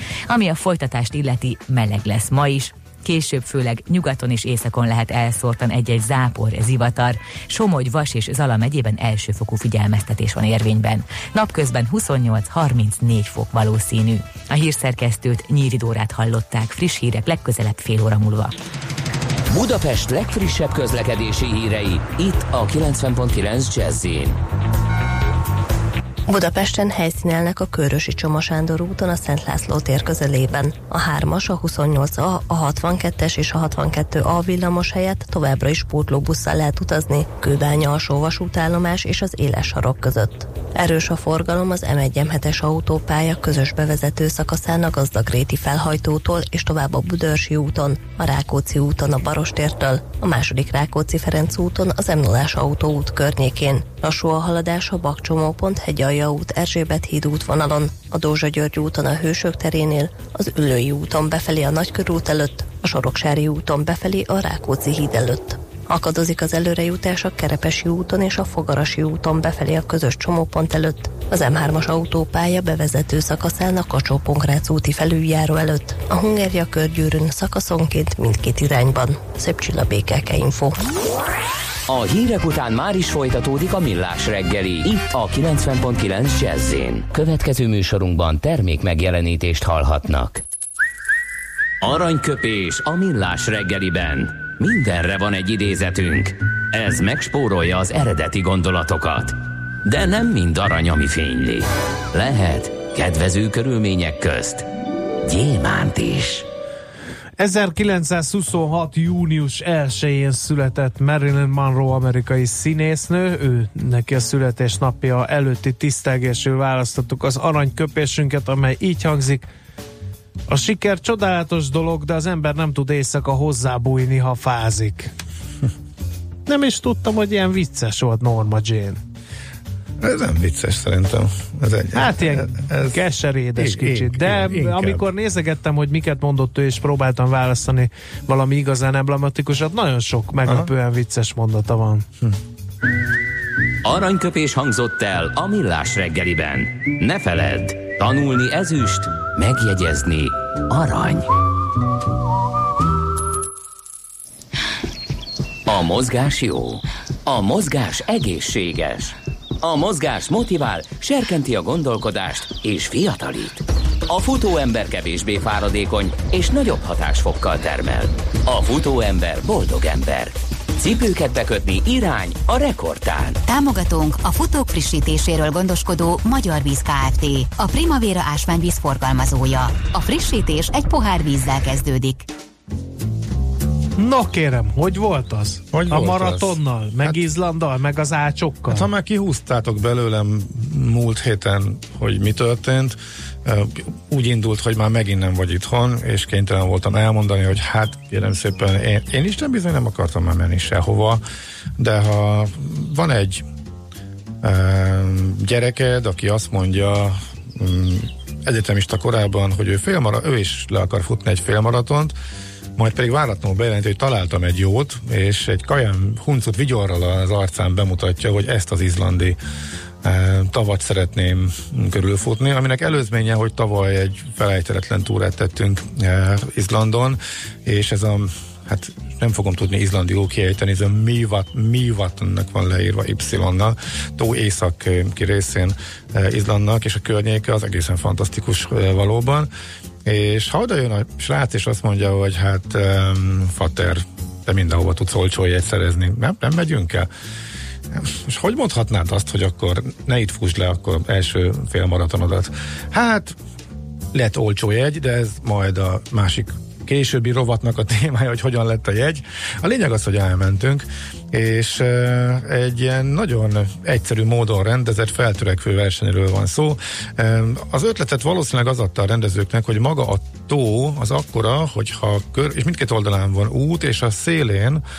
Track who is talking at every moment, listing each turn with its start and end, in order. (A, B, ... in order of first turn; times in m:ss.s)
0:00.3-0:18.5 A
0:19.5-0:24.4 B
0:26.3-1:20.8 C
1:21.9-1:30.4 B
1:31.8-1:44.6 B
1:45.2-1:46.5 B
1:47.4-1:59.5 D
2:00.5-2:05.1 D
2:06.5-2:09.0 D
2:10.0-2:13.0 E
2:11.9-2:22.1 D
2:13.6-2:15.0 E
2:23.8-2:31.3 B
2:35.7-2:53.4 B
2:53.4-3:02.3 F
3:04.0-3:08.9 D
3:05.7-3:07.2 E
3:08.7-3:21.2 E
3:21.8-3:23.4 E
3:24.4-3:32.1 E
3:32.8-3:39.4 E
3:40.0-3:59.5 E
4:00.0-4:07.1 E
4:07.9-4:13.4 E
4:14.1-4:34.8 E